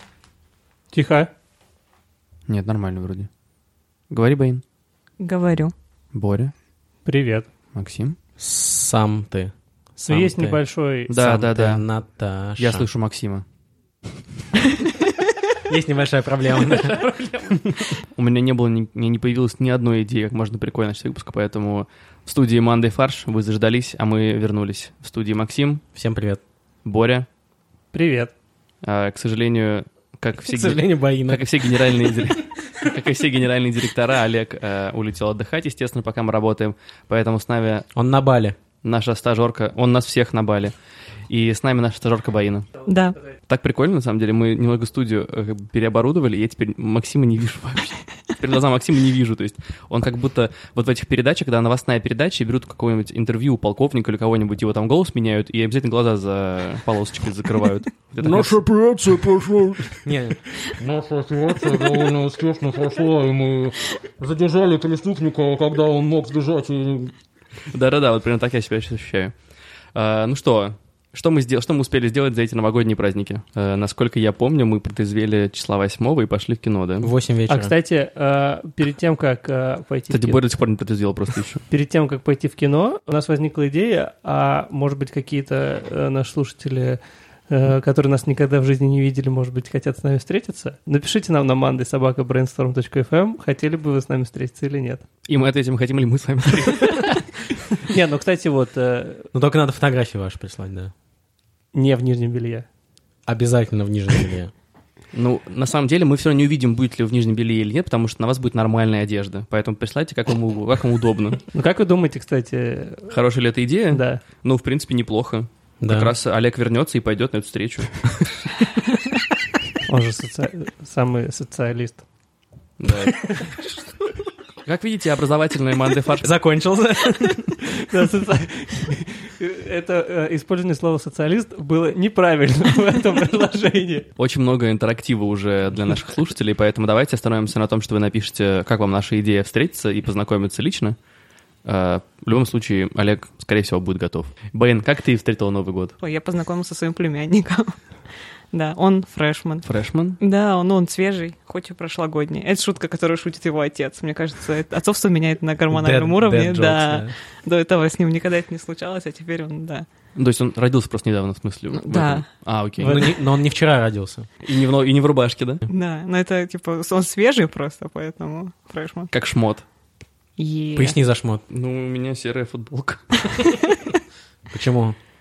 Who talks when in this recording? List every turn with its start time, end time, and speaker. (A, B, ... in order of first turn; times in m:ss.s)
0:00.9-0:01.3 A
0:02.5-0:03.3 B
0:04.1-0:04.6 B
0:05.2-0:05.7 C
0:06.1-0:06.5 B
0:07.0-0:07.5 A
0:07.7-0:08.2 B
0:08.4-0:09.5 D
0:10.0-0:11.1 A
0:10.1-0:12.9 D
0:11.1-0:11.8 B
0:12.6-0:13.4 B
0:15.6-0:18.0 D
0:18.1-0:25.8 B
0:26.0-0:26.4 D
0:26.8-0:27.3 B
0:27.9-0:28.3 A
0:28.8-0:37.9 B
0:30.4-0:32.3 D
0:38.0-0:38.6 D
0:38.8-0:40.8 B
0:41.3-0:42.7 B
0:42.9-0:43.2 C
0:43.5-0:58.6 B
0:58.2-1:00.1 E
1:00.0-1:00.5 D
1:00.6-1:07.1 E
1:07.7-1:09.4 B
1:09.9-1:17.1 B
1:17.0-1:17.7 D
1:17.5-1:20.4 A
1:20.1-1:21.6 B
1:21.7-1:35.0 A
1:35.3-1:37.2 B
1:37.8-1:39.3 A
1:39.3-1:40.9 D
1:41.7-1:42.7 A
1:43.3-1:44.5 D
1:45.1-1:51.4 B
1:51.5-1:53.1 A
1:53.1-1:58.2 B
1:53.9-1:54.2 A
1:55.8-1:56.1 D
1:59.8-2:02.0 A
2:02.8-2:03.2 B
2:03.2-2:03.6 A
2:04.7-2:06.3 B
2:06.2-2:08.0 D
2:07.8-2:14.1 A
2:14.2-2:21.0 B
2:21.6-2:26.0 B
2:26.0-2:27.8 C
2:28.5-2:29.7 C
2:29.6-2:30.2 B
2:30.2-2:39.9 C
2:35.7-2:37.1 D
2:40.2-2:43.1 B
2:41.8-2:42.2 C
2:42.8-2:44.3 D
2:44.4-2:45.6 B
2:45.7-2:49.1 C
2:49.1-2:49.6 B
2:50.4-2:51.0 C
2:50.8-2:51.4 D
2:51.5-2:53.4 B
2:54.5-2:55.0 D